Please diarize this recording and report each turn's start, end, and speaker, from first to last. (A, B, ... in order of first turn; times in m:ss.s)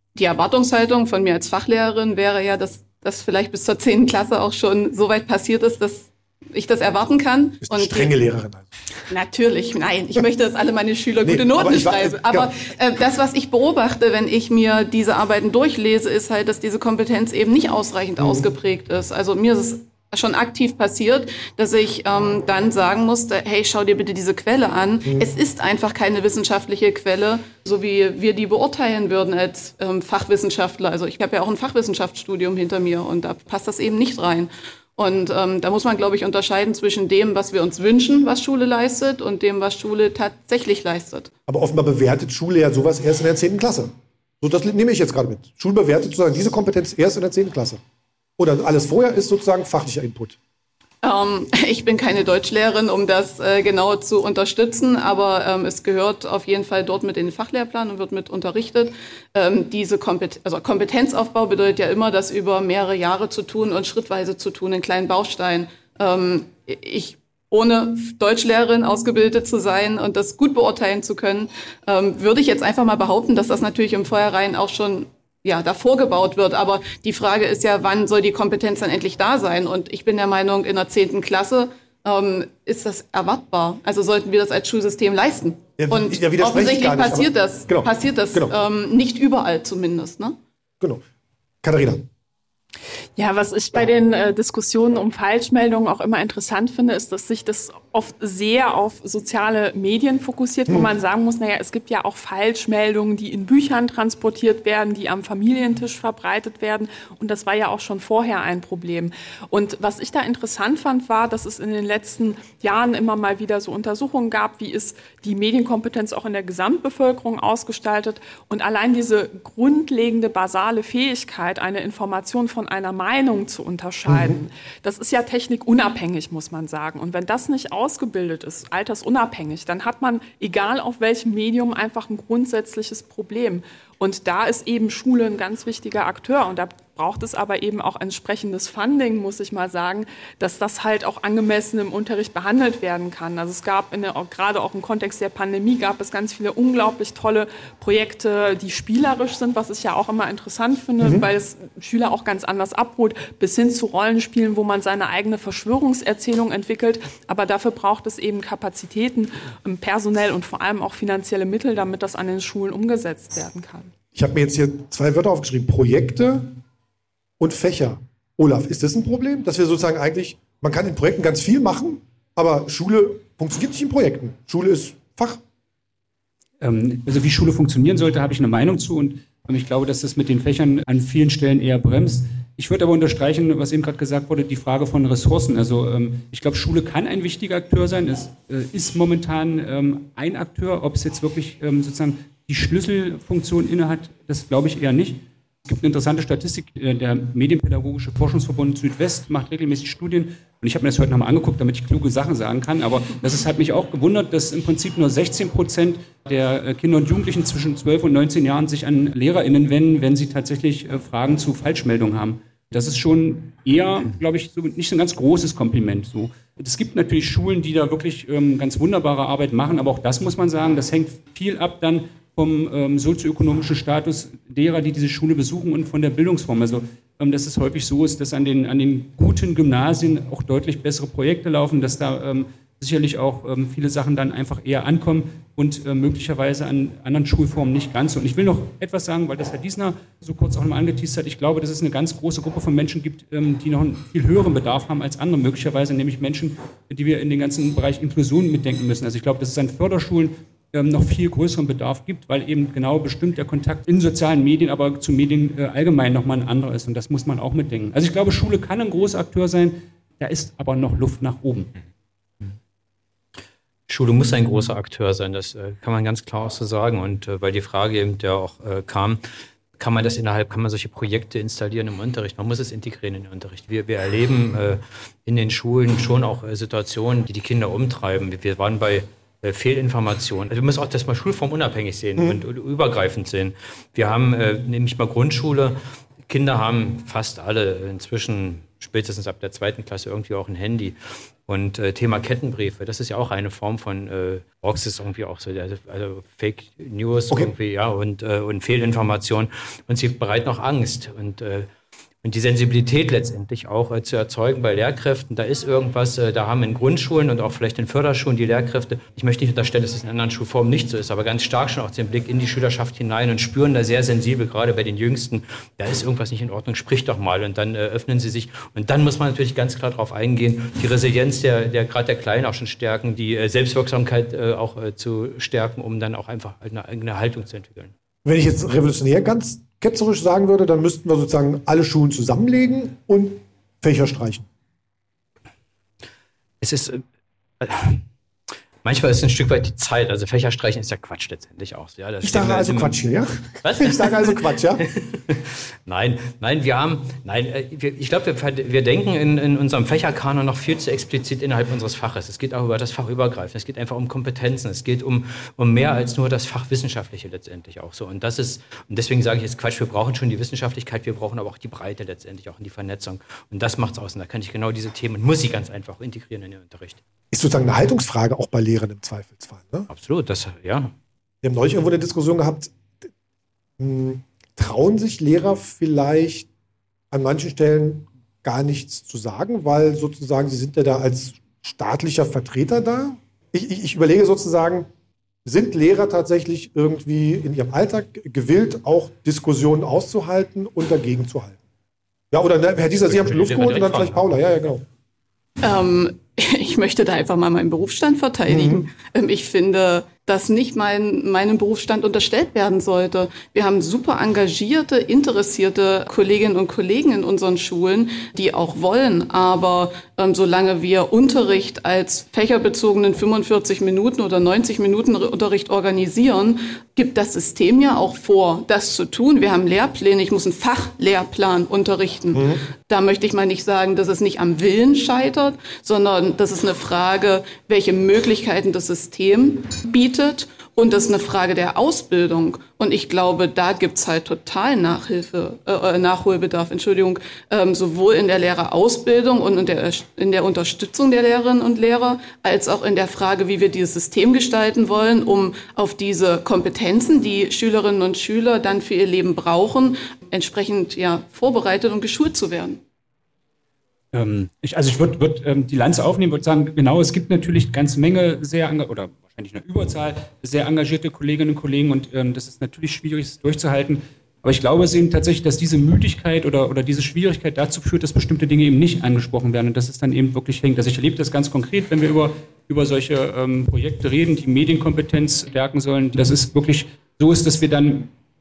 0:00.1-0:08.1 A
0:07.6-0:08.7 B
0:09.1-0:41.3 A
0:11.2-0:12.5 B
0:18.2-0:18.5 B
0:41.5-0:47.8 B
0:48.4-0:50.4 B
0:51.0-1:30.4 A
1:25.8-1:28.5 B
1:31.6-1:32.1 B
1:33.2-2:43.9 C
2:04.1-2:04.4 B
2:31.0-2:31.2 B
2:44.1-2:46.6 B
2:47.4-2:55.4 B
2:56.6-4:21.7 D
4:23.9-4:29.2 E
4:29.8-5:01.7 E
5:02.2-5:27.9 E
5:28.2-5:34.5 B
5:36.6-5:37.0 E
5:37.6-5:38.0 E
5:38.8-5:43.0 E
5:42.2-5:44.8 B
5:43.6-6:07.0 E
6:07.3-6:09.9 B
6:09.9-6:10.9 E
6:11.4-6:12.7 B
6:13.8-6:16.5 B
6:17.1-6:24.9 B
6:25.4-6:31.6 B
6:32.3-6:34.8 B
6:33.1-6:34.3 E
6:35.6-7:32.8 A
6:38.5-6:38.9 B
7:02.3-7:02.6 B
7:34.1-7:58.1 D